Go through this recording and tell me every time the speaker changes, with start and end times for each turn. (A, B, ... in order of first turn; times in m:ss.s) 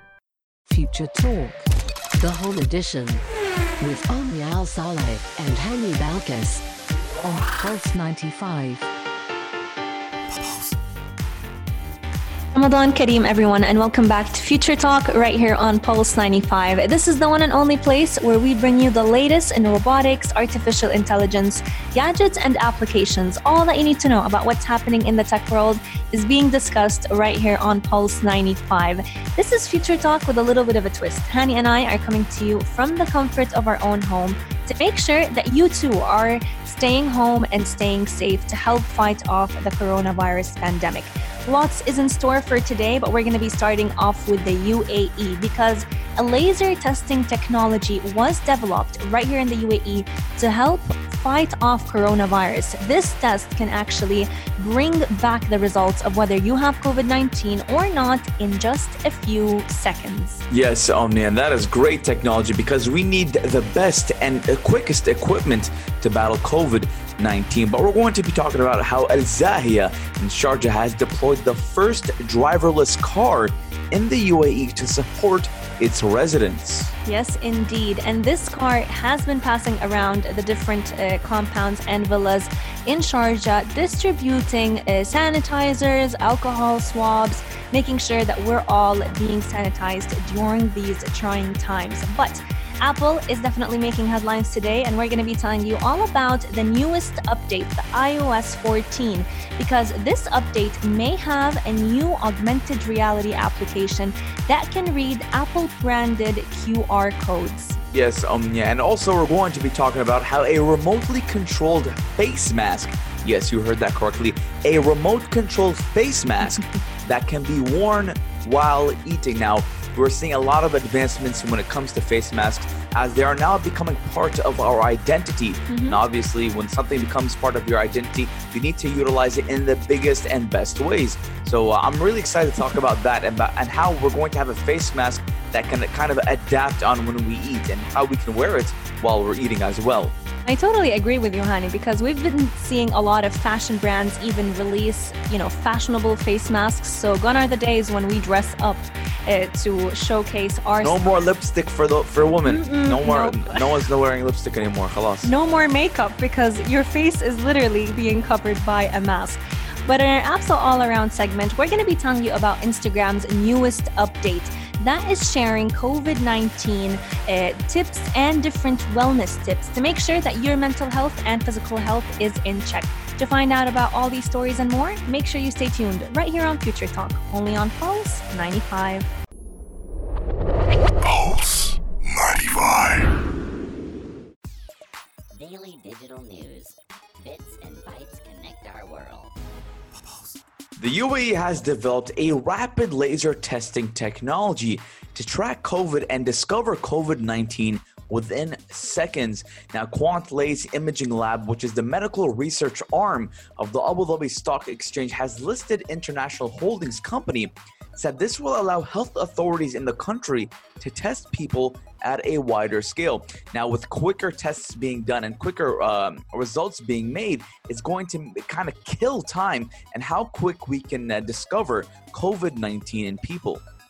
0:00.7-0:03.2 A
0:03.8-0:06.6 A
0:07.2-0:08.9 A
0:10.3-0:10.8 B
0:12.5-1:00.4 C
1:00.5-1:16.9 D
1:17.0-1:47.8 C
1:47.9-2:20.1 D
2:05.7-2:06.0 C
2:20.4-2:31.0 C
2:30.8-2:35.3 D
2:32.5-2:33.8 C
2:35.2-2:59.1 C
3:01.0-3:03.1 B
3:05.3-3:09.3 E
3:10.0-3:10.4 B
3:10.8-3:43.6 D